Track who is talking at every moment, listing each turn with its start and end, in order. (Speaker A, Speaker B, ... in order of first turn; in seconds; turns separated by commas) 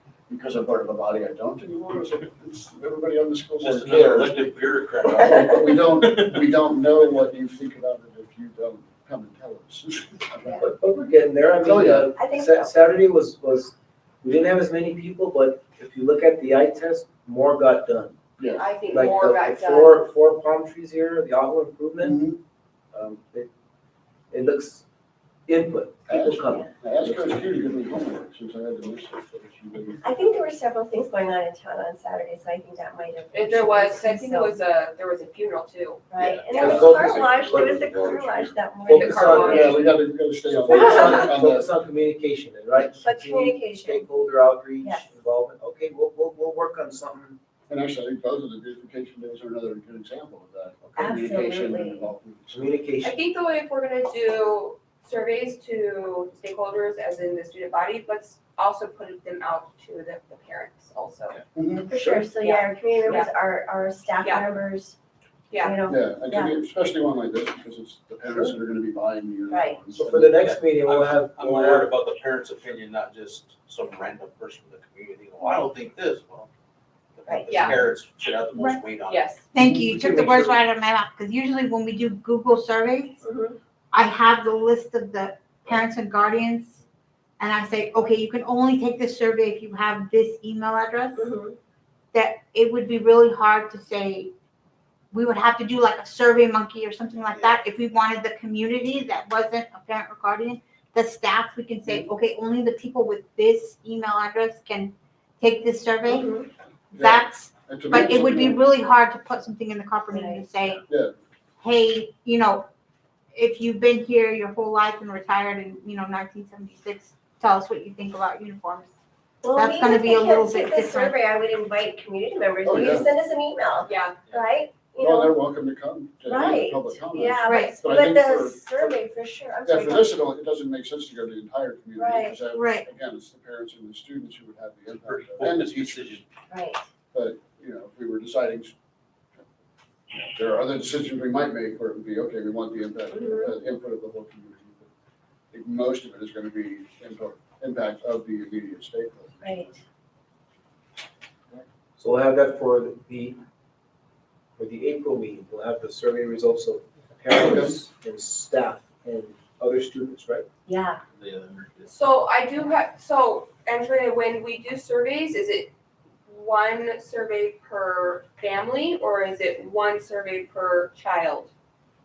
Speaker A: 0.3-4.5, Speaker B: 3.6-6.5, Speaker A: 5.2-10.6, Speaker C: 10.6-18.2, Speaker A: 11.6-12.1, Speaker D: 12.1-12.7, Speaker A: 18.4-18.7, Speaker E: 18.5-20.0, Speaker C: 18.9-22.2, Speaker A: 22.0-22.4, Speaker C: 22.9-23.5, Speaker C: 24.3-24.8, Speaker C: 25.5-27.3, Speaker A: 26.1-30.1, Speaker D: 26.4-26.7, Speaker D: 30.0-34.6, Speaker E: 33.3-36.0, Speaker D: 36.1-39.7, Speaker B: 36.2-38.5, Speaker A: 36.6-36.9, Speaker C: 36.6-37.8, Speaker C: 38.8-39.8, Speaker E: 38.9-39.8, Speaker A: 39.3-41.7, Speaker C: 40.5-47.4, Speaker D: 40.7-41.3, Speaker D: 43.0-44.0, Speaker D: 44.8-45.1, Speaker A: 47.7-52.6, Speaker D: 51.0-52.1, Speaker C: 52.5-53.1, Speaker E: 53.0-61.4, Speaker A: 61.5-62.2, Speaker D: 61.9-65.0, Speaker E: 62.4-63.3, Speaker E: 65.5-65.8, Speaker D: 65.6-66.5, Speaker A: 65.9-70.4, Speaker C: 68.2-68.5, Speaker D: 69.5-69.8, Speaker C: 69.9-71.9, Speaker B: 70.3-76.5, Speaker B: 77.1-79.4, Speaker D: 77.3-77.7, Speaker E: 77.5-77.8, Speaker F: 78.5-78.8, Speaker E: 79.1-79.4, Speaker F: 79.5-83.2, Speaker D: 83.2-83.6, Speaker F: 83.9-86.8, Speaker F: 87.4-91.3, Speaker D: 91.2-91.5, Speaker F: 92.1-94.3, Speaker F: 95.1-106.3, Speaker D: 106.0-106.5, Speaker A: 106.9-108.6, Speaker F: 106.9-110.8, Speaker D: 110.1-110.4, Speaker F: 111.6-112.7, Speaker F: 113.3-118.9, Speaker D: 119.4-125.4, Speaker F: 119.5-121.1, Speaker A: 122.6-123.1, Speaker E: 123.9-124.1, Speaker A: 125.0-128.9, Speaker D: 126.2-130.3, Speaker F: 127.4-127.8, Speaker A: 129.6-136.2, Speaker D: 132.0-132.4, Speaker F: 132.5-132.8, Speaker B: 135.1-136.3, Speaker D: 136.5-136.8, Speaker A: 137.1-138.7, Speaker A: 140.1-144.9, Speaker D: 143.1-143.5, Speaker A: 145.5-149.7, Speaker D: 149.4-149.8, Speaker C: 152.0-153.4, Speaker C: 154.6-160.4, Speaker A: 157.3-157.8, Speaker D: 160.7-161.0, Speaker B: 161.1-162.0, Speaker E: 161.9-165.7, Speaker E: 166.3-171.5